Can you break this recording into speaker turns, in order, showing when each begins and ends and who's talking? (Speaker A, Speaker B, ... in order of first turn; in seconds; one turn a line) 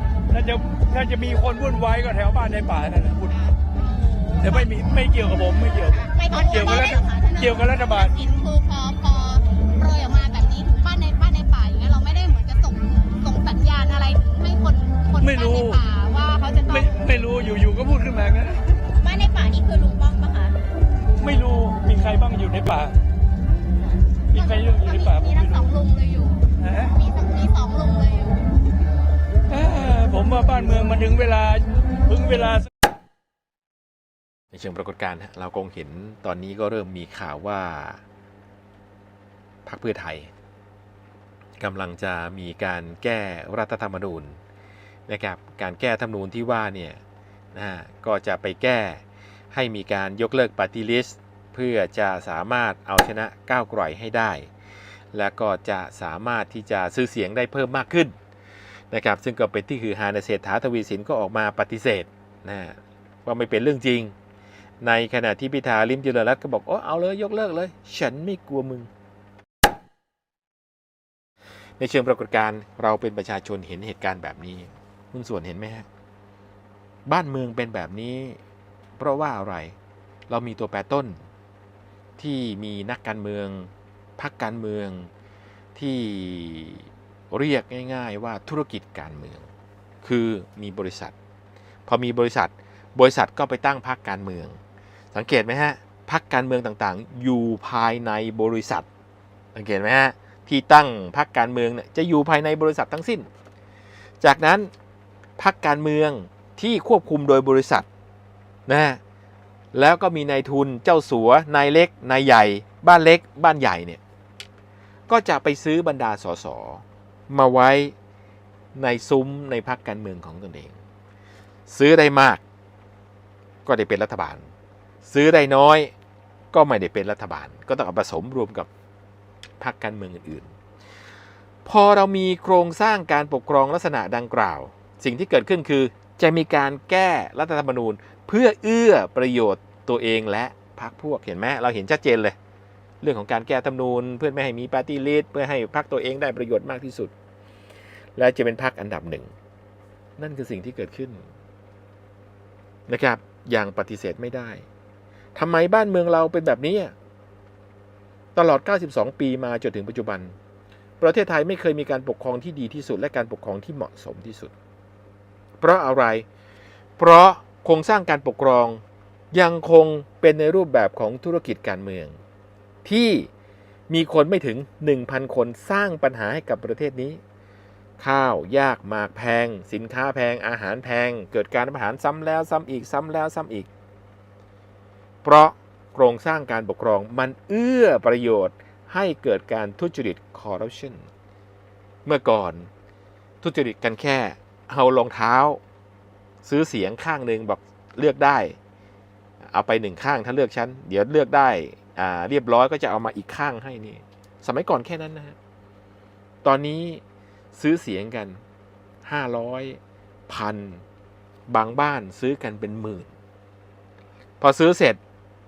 Speaker A: 0.3-3.3
Speaker B: 3.3-5.0
Speaker A: 4.4-8.1
Speaker B: 5.9-17.2
Speaker A: 15.2-15.8
Speaker A: 16.7-18.7
Speaker B: 18.9-20.6
Speaker A: 21.2-22.9
Speaker B: 24.3-28.5
Speaker A: 24.3-25.7
Speaker A: 26.6-26.9
Speaker A: 29.5-32.7
Speaker C: 34.5-38.0
Speaker C: 39.7-40.3
Speaker C: 41.6-44.4
Speaker C: 45.1-47.0
Speaker C: 47.5-54.5
Speaker C: 55.1-58.1
Speaker C: 58.9-64.1
Speaker C: 64.8-68.9
Speaker C: 71.8-75.8
Speaker C: 77.0-78.4
Speaker C: 79.0-79.7
Speaker C: 80.3-81.2
Speaker C: 82.2-85.1
Speaker C: 85.7-89.5
Speaker C: 90.0-91.1
Speaker C: 91.8-94.6
Speaker C: 95.1-98.8
Speaker C: 99.5-103.3
Speaker C: 104.2-104.7
Speaker C: 105.4-107.8
Speaker C: 108.7-109.0
Speaker C: 109.7-114.0
Speaker C: 115.1-117.9
Speaker C: 118.7-120.8
Speaker C: 121.7-122.4
Speaker C: 123.7-124.5
Speaker C: 125.0-125.9
Speaker C: 126.5-128.7
Speaker C: 129.6-130.5
Speaker C: 131.7-142.3
Speaker C: 143.0-147.1
Speaker C: 148.2-149.3
Speaker C: 150.2-151.2
Speaker C: 152.9-154.7
Speaker C: 155.3-156.9
Speaker C: 158.3-160.3
Speaker C: 161.0-164.5
Speaker C: 165.6-166.2
Speaker C: 167.0-172.2
Speaker C: 172.8-173.3
Speaker C: 173.9-177.2
Speaker C: 178.0-183.7
Speaker C: 185.2-191.0
Speaker C: 192.0-192.7
Speaker C: 193.4-195.6
Speaker C: 196.4-198.6
Speaker C: 199.5-205.3
Speaker C: 206.4-207.0
Speaker C: 207.5-208.4
Speaker C: 209.1-210.8
Speaker C: 211.5-213.1
Speaker C: 214.4-215.0